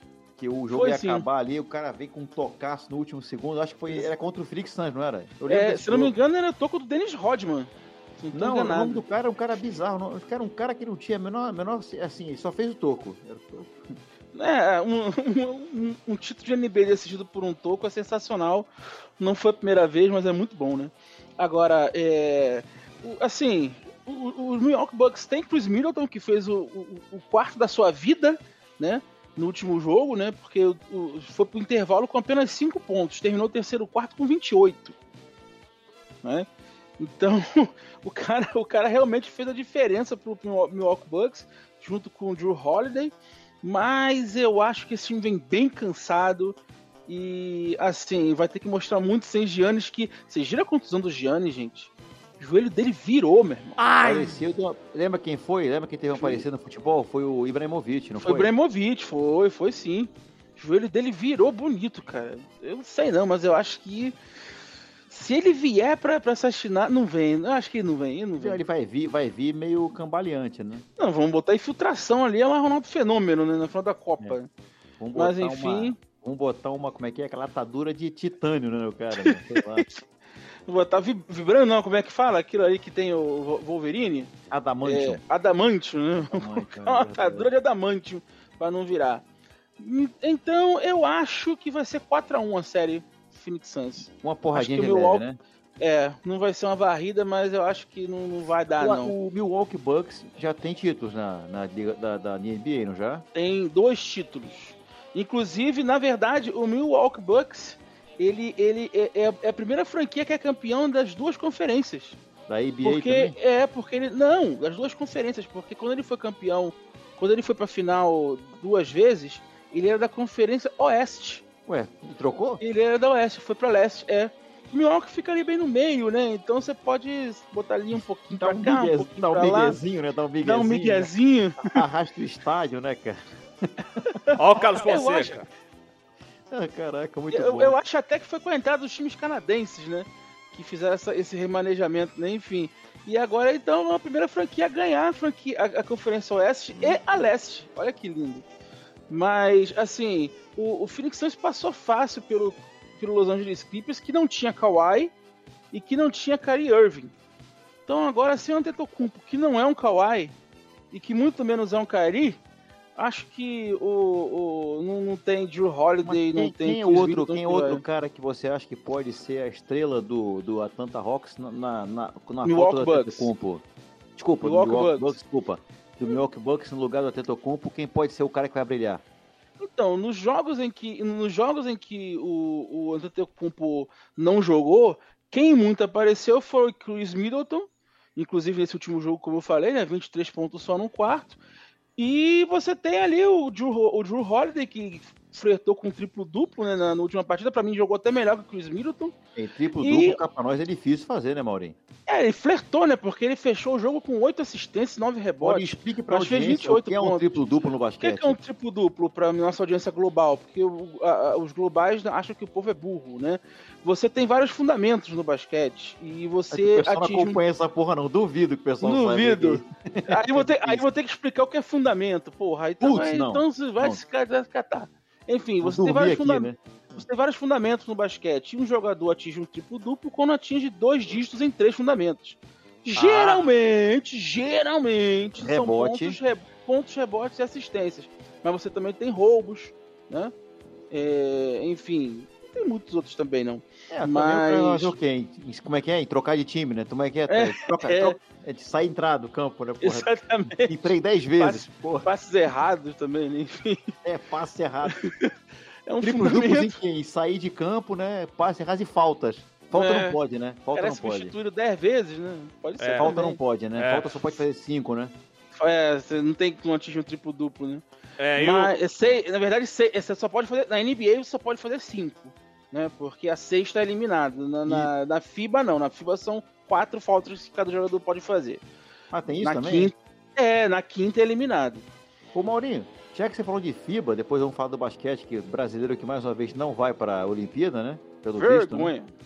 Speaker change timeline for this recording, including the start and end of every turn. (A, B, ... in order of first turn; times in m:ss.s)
0:00.4-0:06.2 A
0:00.7-0:01.2 B
0:05.5-0:09.0 B
0:08.3-0:13.8 A
0:14.3-0:34.9 B
0:37.0-0:46.6 B
0:47.1-0:53.8 B
0:53.8-0:54.4 C
0:54.0-0:58.5 A
0:56.1-0:56.4 B
0:58.2-1:04.2 B
1:05.1-1:08.6 B
1:08.4-1:10.9 A
1:11.0-1:14.5 B
1:15.0-1:19.9 A
1:15.2-1:16.0 B
1:19.2-1:20.0 B
1:20.7-1:24.3 B
1:24.5-1:25.2 A
1:24.8-1:29.2 B
1:26.3-1:27.5 A
1:29.8-1:35.2 B
1:34.1-1:35.4 A
1:35.8-1:39.2 B
1:38.8-1:43.2 A
1:43.4-1:52.2 B
1:52.5-1:53.4 A
1:52.8-2:01.4 B
2:01.7-2:02.6 A
2:02.6-2:09.8 B
2:08.3-2:11.1 A
2:10.4-2:11.8 B
2:11.7-2:13.7 A
2:14.3-2:15.4 B
2:14.4-2:15.5 C
2:16.5-2:17.8 A
2:17.3-2:28.4 B
2:26.7-2:27.0 A
2:29.1-2:35.1 B
2:35.7-2:37.1 B
2:37.9-2:40.3 B
2:40.9-2:42.4 B
2:43.0-2:47.8 B
2:46.0-2:53.6 A
2:52.4-2:53.3 B
2:54.2-2:59.0 A
2:54.4-2:55.2 B
2:59.6-3:11.4 B
3:12.0-3:19.2 B
3:19.4-3:21.8 A
3:19.8-3:20.2 B
3:22.1-3:27.4 B
3:25.4-3:28.4 A
3:28.0-3:37.4 B
3:36.5-3:40.8 A
3:38.8-4:00.3 B
3:42.8-3:44.0 A
3:45.6-3:47.0 A
3:53.0-3:53.4 A
3:53.1-3:53.4 C
3:55.4-3:56.2 A
4:00.9-4:04.9 B
4:03.9-4:12.1 A
4:07.3-4:08.2 B
4:09.8-4:13.9 B
4:14.0-4:15.1 A
4:14.9-4:15.3 B
4:15.9-4:16.8 B
4:16.0-4:21.3 A
4:19.7-4:20.2 B
4:20.7-4:23.4 B
4:22.8-4:23.1 C
4:23.0-4:25.1 A
4:23.8-4:24.3 C
4:25.5-4:27.8 B
4:28.2-4:28.8 C
4:28.4-4:38.6 B
4:34.6-4:34.9 A
4:39.1-4:39.9 A
4:39.4-4:41.8 B
4:42.3-4:48.9 A
4:48.4-4:49.1 B